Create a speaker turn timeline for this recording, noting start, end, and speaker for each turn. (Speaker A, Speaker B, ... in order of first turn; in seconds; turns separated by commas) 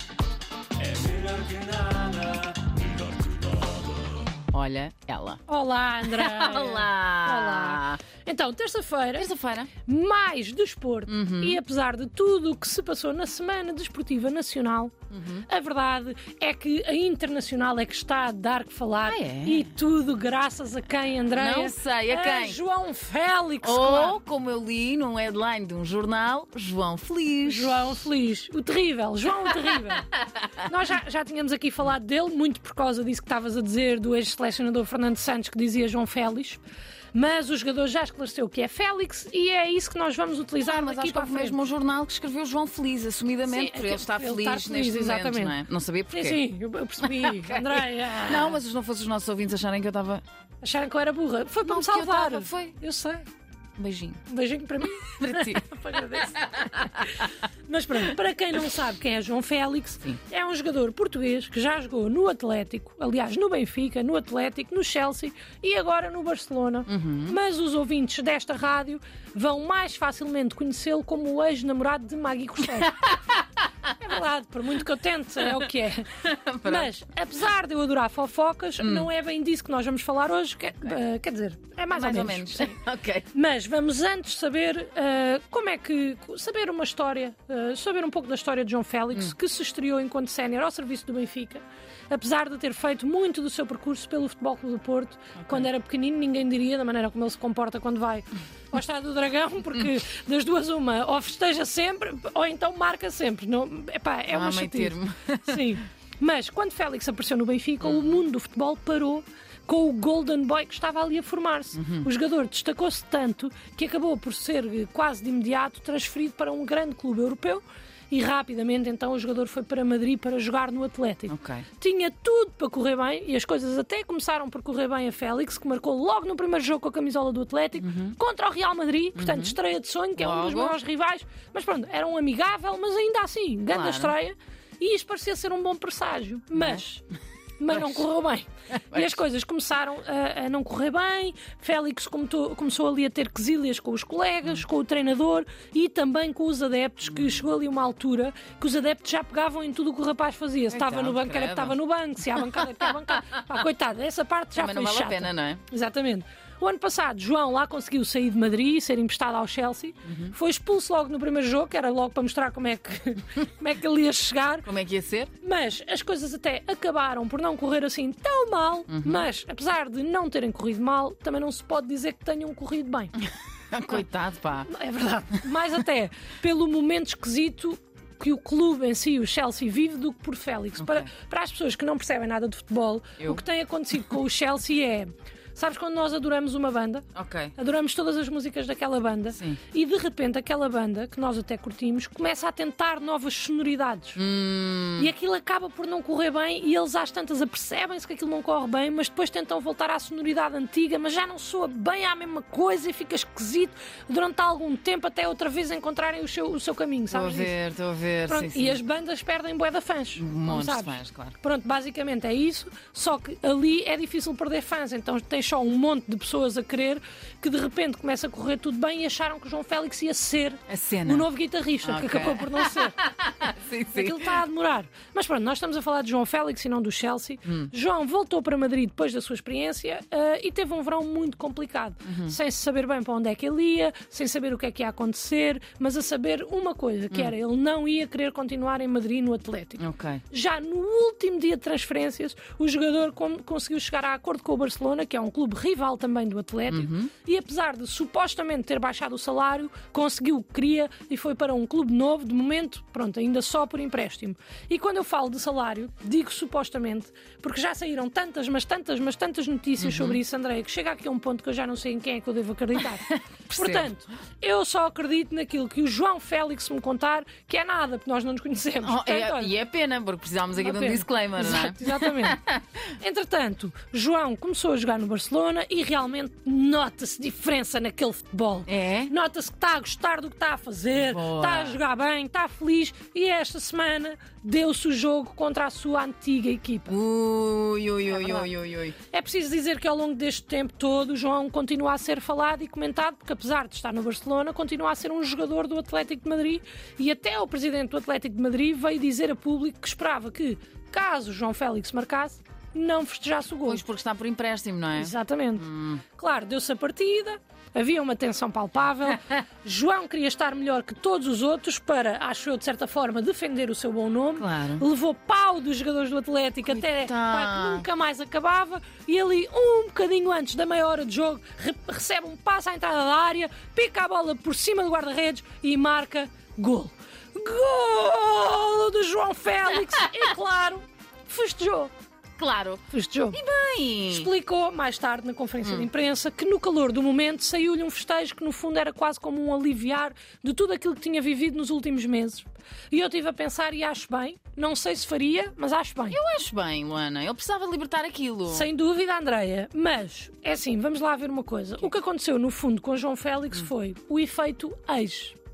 Speaker A: 0.8-3.4, Speaker B: 4.5-5.4, Speaker C: 5.5-14.9, Speaker B: 6.0-8.0, Speaker B: 9.1-9.7, Speaker B: 11.1-11.6, Speaker B: 15.1-15.4, Speaker C: 15.4-24.2, Speaker B: 19.0-19.7, Speaker B: 21.3-22.6, Speaker B: 23.6-27.8, Speaker C: 27.4-36.6, Speaker C: 37.1-41.6, Speaker B: 40.6-46.4, Speaker C: 43.5-45.5, Speaker C: 46.1-48.6, Speaker B: 47.0-50.2, Speaker C: 50.6-53.2, Speaker B: 51.6-52.8, Speaker B: 53.8-54.2, Speaker C: 54.3-73.2, Speaker B: 55.0-56.7, Speaker B: 66.9-67.4, Speaker C: 73.9-82.8, Speaker B: 76.2-76.9, Speaker B: 78.8-79.1, Speaker B: 81.9-83.3, Speaker C: 83.3-137.0, Speaker B: 95.4-95.7, Speaker B: 104.3-105.8, Speaker B: 107.8-108.2, Speaker B: 111.7-112.1, Speaker B: 121.3-121.7, Speaker B: 127.8-128.2, Speaker B: 129.2-129.6, Speaker B: 130.2-130.8, Speaker B: 133.7-134.1, Speaker B: 136.5-136.8, Speaker C: 137.6-164.7, Speaker B: 137.7-138.0, Speaker B: 138.9-139.2, Speaker B: 147.0-147.4, Speaker B: 150.7-151.8, Speaker B: 152.3-153.4, Speaker B: 154.5-155.6, Speaker B: 160.0-160.3, Speaker B: 164.6-165.3, Speaker C: 165.4-173.1, Speaker B: 168.9-169.3, Speaker B: 173.7-174.7, Speaker C: 174.7-187.0, Speaker B: 180.8-181.1, Speaker B: 187.1-187.5, Speaker C: 187.6-194.2, Speaker B: 189.3-189.6, Speaker B: 194.2-195.1, Speaker C: 195.0-207.5, Speaker B: 207.1-208.8, Speaker C: 208.3-223.0, Speaker B: 210.2-211.3, Speaker B: 220.7-221.3, Speaker B: 221.8-224.4, Speaker C: 223.9-269.5, Speaker B: 227.4-227.7, Speaker B: 232.1-232.3, Speaker B: 239.8-240.2, Speaker B: 246.7-247.1, Speaker B: 259.8-260.2, Speaker B: 263.5-263.9, Speaker B: 268.8-272.6, Speaker C: 270.6-272.4, Speaker C: 273.0-286.9, Speaker B: 278.7-279.1, Speaker B: 280.9-281.8, Speaker B: 286.9-288.9, Speaker C: 288.1-288.5, Speaker C: 289.1-303.8, Speaker B: 303.6-306.0, Speaker C: 304.9-331.9, Speaker B: 314.4-314.9, Speaker B: 316.6-317.9, Speaker B: 332.4-334.3, Speaker C: 332.9-333.4, Speaker C: 334.1-346.2, Speaker B: 335.6-335.9, Speaker B: 346.1-348.7, Speaker C: 348.5-355.4